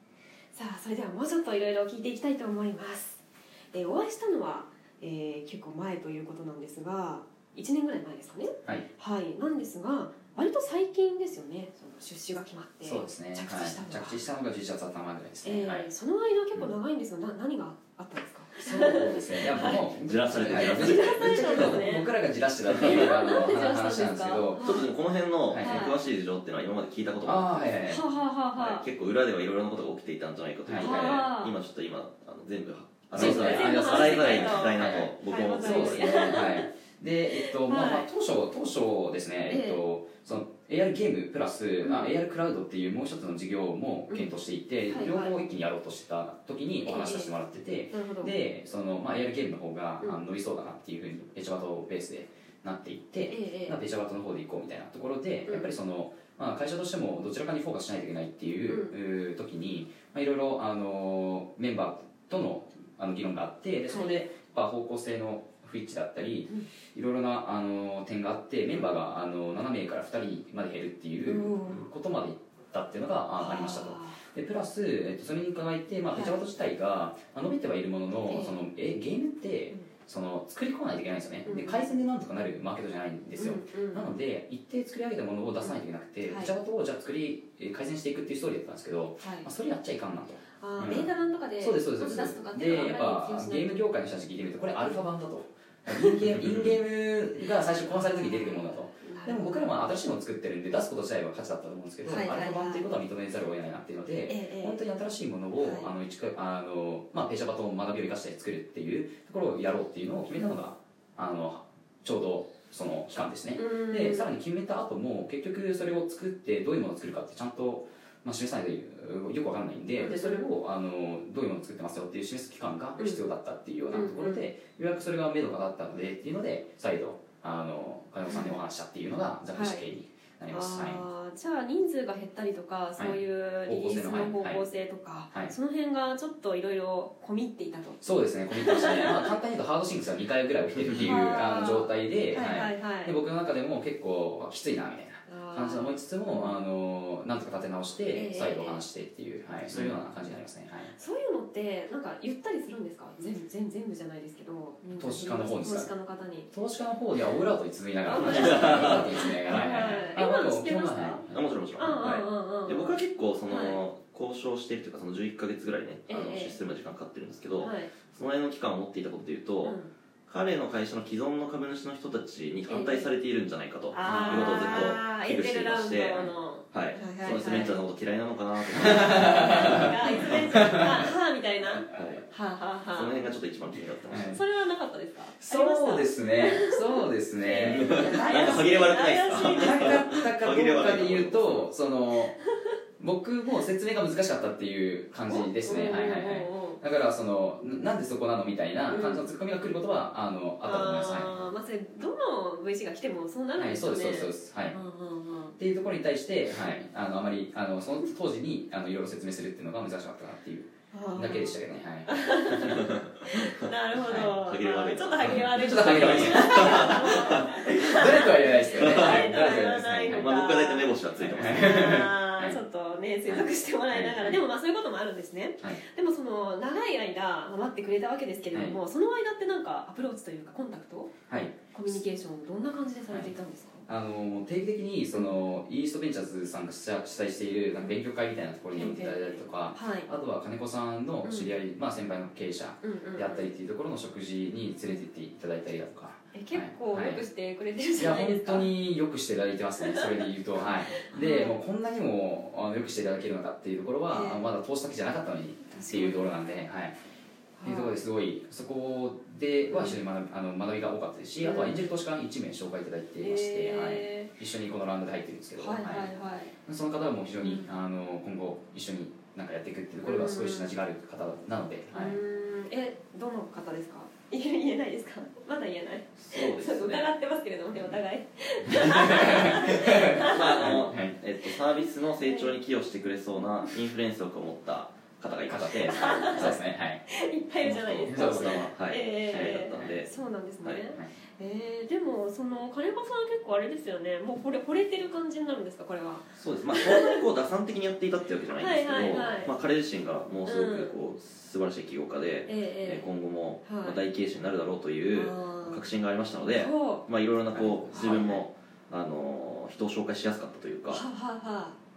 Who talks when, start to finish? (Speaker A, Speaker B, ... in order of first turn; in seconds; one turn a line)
Speaker A: 0.5-14.3
Speaker B: 12.8-15.9
Speaker A: 15.4-19.9
Speaker B: 18.6-24.7
Speaker C: 19.6-21.9
Speaker A: 20.6-22.1
Speaker C: 22.6-23.1
Speaker A: 22.8-24.9
Speaker C: 24.6-27.8
Speaker B: 25.5-25.9
Speaker A: 25.6-26.0
Speaker B: 27.2-28.0
Speaker A: 27.9-28.9
Speaker C: 28.5-36.3
Speaker B: 30.6-31.3
Speaker A: 30.8-31.6
Speaker A: 33.1-36.7
Speaker B: 33.1-131.1
Speaker A: 37.3-38.1
Speaker A: 39.5-39.8
Speaker A: 41.8-42.2
Speaker A: 44.9-45.4
Speaker A: 46.8-47.3
Speaker A: 47.9-48.4
Speaker A: 53.3-53.8
Speaker A: 55.5-55.7
Speaker A: 58.7-59.0
Speaker A: 63.9-64.2
Speaker A: 71.2-71.9
Speaker A: 73.4-74.2
Speaker A: 76.1-76.4
Speaker A: 78.3-78.6
Speaker A: 81.5-81.9
Speaker A: 83.4-84.1
Speaker A: 85.6-86.5
Speaker A: 89.2-89.5
Speaker A: 90.6-93.9
Speaker A: 95.9-96.2
Speaker A: 97.8-99.7
Speaker A: 102.0-102.9
Speaker A: 104.3-104.8
Speaker A: 105.6-105.9
Speaker A: 113.6-114.3
Speaker A: 120.0-120.5
Speaker A: 123.0-123.2
Speaker A: 123.9-124.5
Speaker A: 128.3-128.6
Speaker A: 129.6-129.9
Speaker A: 130.5-139.3
Speaker B: 133.0-134.7
Speaker B: 138.0-150.9
Speaker A: 141.0-143.2
Speaker A: 145.3-146.6
Speaker A: 148.1-148.8
Speaker C: 149.7-150.0
Speaker A: 150.9-156.5
Speaker B: 155.0-155.9
Speaker B: 156.5-161.5
Speaker A: 158.1-161.2
Speaker C: 158.2-158.9
Speaker C: 161.3-180.8
Speaker A: 161.8-163.8
Speaker A: 166.1-166.6
Speaker A: 167.6-167.9
Speaker A: 169.6-169.9
Speaker A: 172.7-173.2
Speaker A: 173.9-177.8
Speaker B: 174.1-174.7
Speaker B: 178.8-181.1
Speaker A: 178.8-183.2
Speaker C: 181.9-182.3
Speaker C: 182.9-184.4
Speaker B: 184.1-184.4
Speaker A: 184.3-190.2
Speaker B: 185.4-192.4
Speaker C: 187.7-191.7
Speaker B: 193.0-201.3
Speaker A: 195.3-196.8
Speaker A: 198.9-199.2
Speaker A: 200.6-205.6
Speaker B: 203.6-204.8
Speaker B: 205.6-212.9
Speaker A: 210.9-233.9
Speaker C: 212.8-222.0
Speaker B: 214.0-214.3
Speaker B: 215.2-220.3
Speaker B: 221.2-222.6
Speaker B: 223.3-224.4
Speaker B: 228.5-228.8
Speaker B: 231.3-231.6
Speaker B: 233.1-233.3
Speaker B: 233.9-247.2
Speaker A: 238.7-240.1
Speaker A: 241.2-241.6
Speaker A: 242.8-243.5
Speaker A: 246.3-248.7
Speaker B: 248.0-256.9
Speaker A: 249.8-251.6
Speaker A: 254.1-254.5
Speaker A: 255.7-256.4
Speaker A: 257.6-258.0
Speaker B: 257.6-266.1
Speaker A: 259.7-260.0
Speaker A: 261.4-261.9
Speaker A: 263.2-264.3
Speaker A: 265.6-266.5
Speaker B: 266.6-272.2
Speaker A: 267.4-267.7
Speaker A: 270.0-270.8
Speaker A: 271.9-280.9
Speaker C: 276.2-277.1
Speaker B: 278.7-281.2
Speaker C: 279.1-279.6
Speaker C: 280.2-286.6
Speaker A: 282.2-282.6
Speaker B: 285.5-287.0
Speaker A: 285.9-286.6
Speaker A: 287.1-297.2
Speaker C: 287.6-290.1
Speaker B: 287.6-288.7
Speaker B: 289.3-290.0
Speaker C: 296.4-311.0
Speaker A: 298.6-299.5
Speaker A: 300.5-301.0
Speaker A: 302.5-303.1
Speaker A: 303.6-304.0
Speaker A: 305.1-305.8
Speaker A: 306.4-307.1
Speaker B: 307.5-308.4
Speaker A: 307.9-308.4
Speaker A: 310.9-311.8